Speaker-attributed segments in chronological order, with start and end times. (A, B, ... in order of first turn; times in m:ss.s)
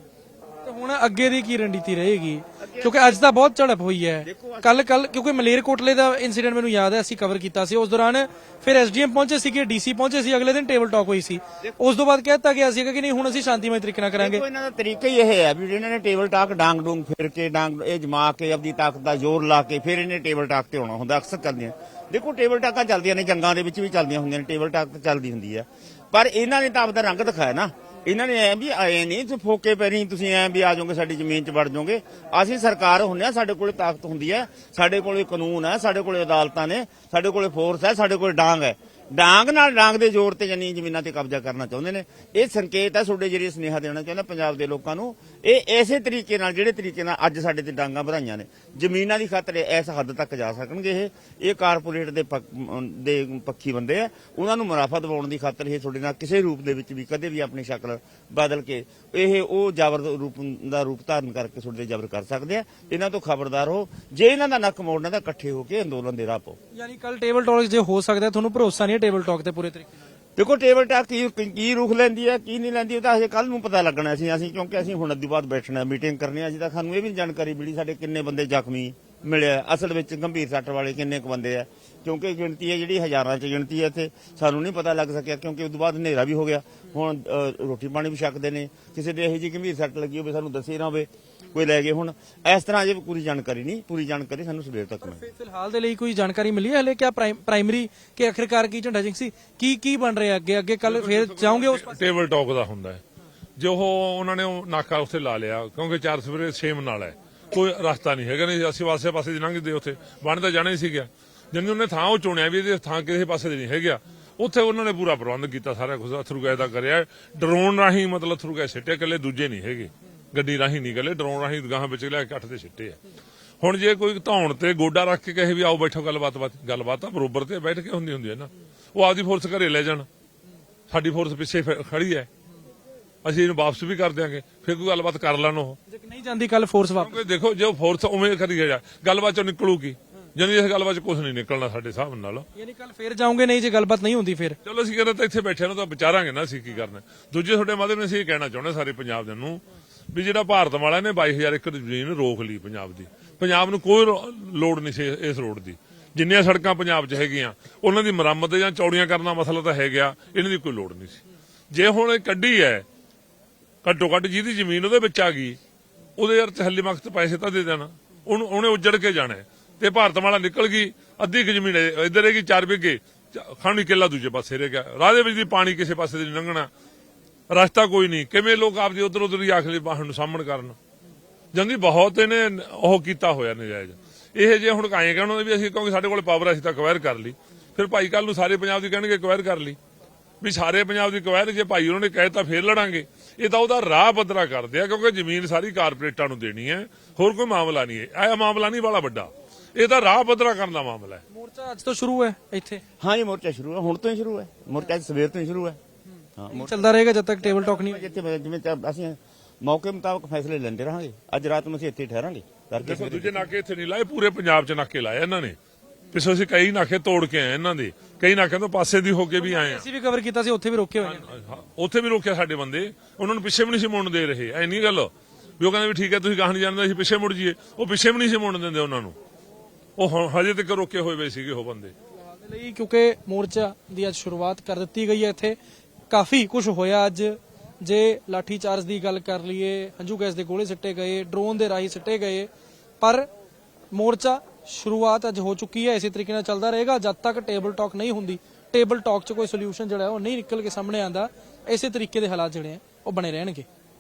0:00.6-0:14.4 A
0:02.6-0:03.2 B
0:04.2-0:04.7 B
0:14.2-1:06.6 B
1:06.7-1:09.9 A
1:10.4-1:35.3 B
1:35.0-1:42.0 A
1:40.8-1:43.0 C
1:43.6-2:03.0 C
2:03.6-2:10.1 C
2:10.9-2:12.3 C
2:13.2-2:15.8 C
2:15.9-2:17.2 A
2:17.0-2:22.5 C
2:22.5-2:24.6 A
2:24.6-2:42.8 C
2:43.8-2:45.6 C
2:46.2-2:56.7 C
2:57.5-3:00.8 C
3:01.5-3:09.8 C
3:10.4-3:21.2 C
3:21.3-3:22.8 A
3:23.0-3:25.8 B
3:26.4-3:26.8 B
3:26.5-3:28.0 A
3:27.4-3:33.5 B
3:32.8-3:35.6 C
3:36.1-3:39.9 C
3:39.4-3:41.2 A
3:41.0-3:49.2 C
3:50.0-3:51.9 C
3:52.4-3:55.6 A
3:56.1-4:02.5 A
4:03.0-4:03.3 A
4:03.9-4:13.7 A